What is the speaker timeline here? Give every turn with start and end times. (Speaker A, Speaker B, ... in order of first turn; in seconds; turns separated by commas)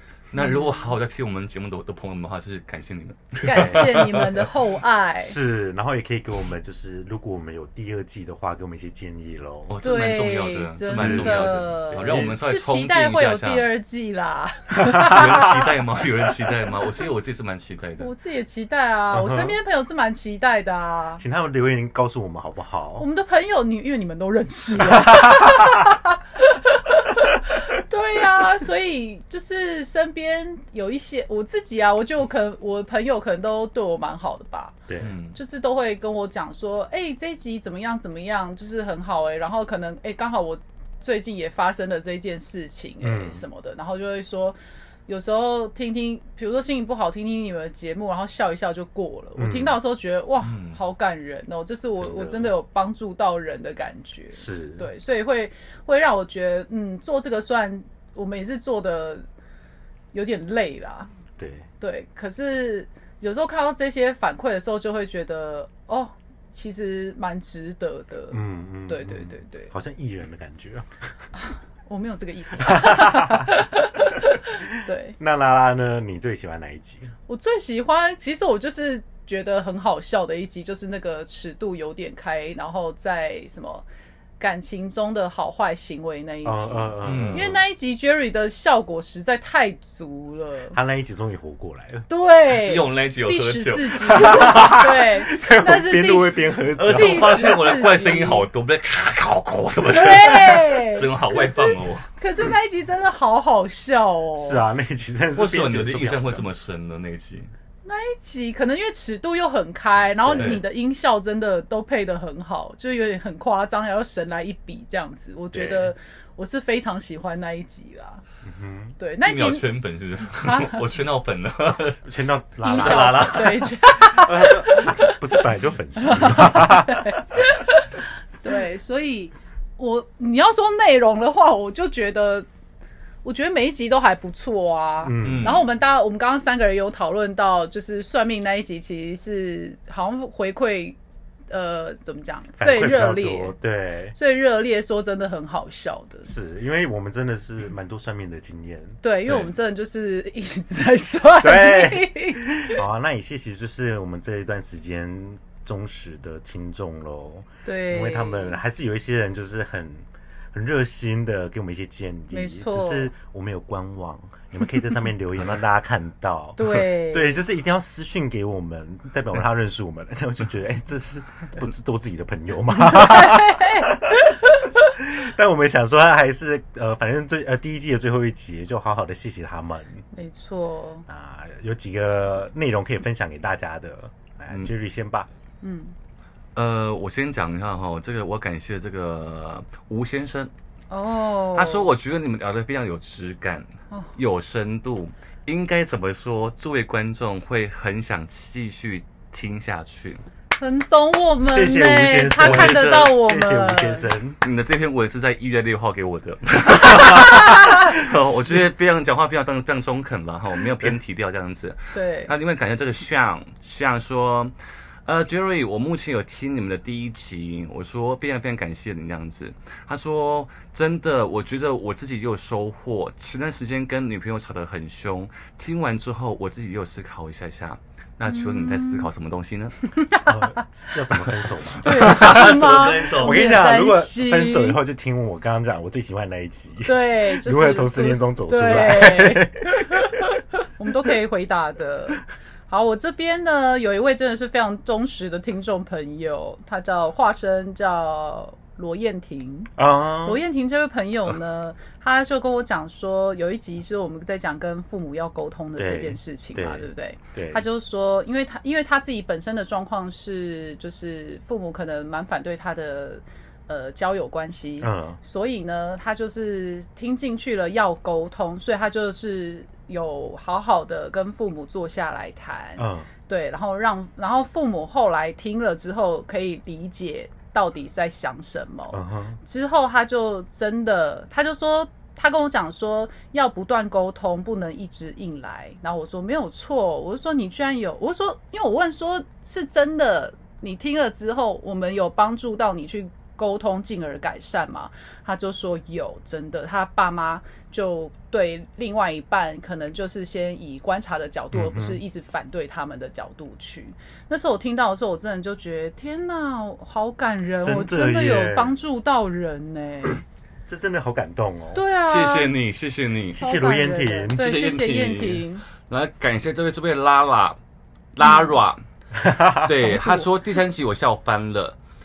Speaker A: 0.3-4.5, Speaker B: 0.4-0.9, Speaker B: 3.4-5.4, Speaker C: 3.5-4.1, Speaker C: 5.2-9.8, Speaker A: 9.7-13.7, Speaker B: 9.8-15.6, Speaker C: 10.8-12.4, Speaker A: 14.9-18.1, Speaker B: 18.0-21.2, Speaker C: 19.1-19.6, Speaker C: 21.2-23.1, Speaker B: 23.0-34.8, Speaker C: 24.9-25.7, Speaker A: 35.0-35.4, Speaker B: 35.3-44.6, Speaker C: 43.0-43.4, Speaker B: 45.1-59.2, Speaker C: 49.4-49.8, Speaker A: 50.4-50.8, Speaker C: 52.0-52.5, Speaker C: 54.3-54.9, Speaker B: 60.1-61.1, Speaker C: 61.4-61.7, Speaker B: 61.8-69.7, Speaker C: 68.3-70.9, Speaker B: 71.4-75.2, Speaker C: 72.6-74.2, Speaker C: 75.2-77.1, Speaker B: 77.3-83.8, Speaker B: 84.4-90.8, Speaker C: 86.5-87.6, Speaker A: 87.0-87.5, Speaker C: 90.7-92.1, Speaker B: 92.1-98.5, Speaker A: 92.5-94.9, Speaker C: 94.1-97.7, Speaker A: 96.8-102.1, Speaker B: 99.8-104.6, Speaker C: 104.4-106.5, Speaker A: 105.4-107.5, Speaker B: 107.8-118.2, Speaker C: 110.2-110.6, Speaker A: 110.4-110.6, Speaker C: 115.5-115.9, Speaker C: 118.4-119.0, Speaker B: 119.0-119.7, Speaker A: 119.2-122.1, Speaker B: 120.3-120.9, Speaker C: 122.1-127.4, Speaker A: 122.6-123.7, Speaker B: 122.6-125.2, Speaker B: 126.0-132.5, Speaker B: 133.2-141.0, Speaker C: 135.0-135.6, Speaker A: 135.2-135.7, Speaker B: 141.5-143.6, Speaker C: 142.6-144.2, Speaker B: 144.2-146.3, Speaker C: 146.2-149.0, Speaker B: 149.0-152.8, Speaker C: 151.4-174.4, Speaker B: 157.7-158.6, Speaker B: 162.3-163.1, Speaker B: 166.6-167.4, Speaker B: 172.7-175.0, Speaker C: 175.0-180.1, Speaker B: 180.1-181.1, Speaker C: 181.1-185.3, Speaker B: 185.6-185.9, Speaker A: 186.6-190.5, Speaker B: 190.9-191.9, Speaker A: 191.6-200.2, Speaker B: 200.6-204.1, Speaker C: 201.4-204.4, Speaker A: 202.4-203.1, Speaker A: 204.4-214.5, Speaker C: 207.0-208.6, Speaker B: 207.3-207.8, Speaker B: 211.9-212.3, Speaker A: 215.1-229.8, Speaker B: 228.3-229.1, Speaker B: 229.8-230.6, Speaker C: 230.3-240.3, Speaker B: 231.8-234.8, Speaker A: 231.8-233.6, Speaker B: 236.8-310.2, Speaker C: 249.8-250.4, Speaker C: 255.8-257.6, Speaker C: 264.8-265.2, Speaker C: 272.8-273.1, Speaker C: 278.9-279.4, Speaker C: 301.5-302.0, Speaker C: 307.6-308.8, Speaker C: 310.7-311.8, Speaker B: 311.7-312.5, Speaker A: 312.0-313.4, Speaker C: 313.3-314.6, Speaker B: 313.4-315.6, Speaker A: 314.3-317.6, Speaker A: 318.1-318.8, Speaker B: 318.2-318.6, Speaker C: 319.2-319.7, Speaker A: 319.5-321.8, Speaker B: 319.7-320.3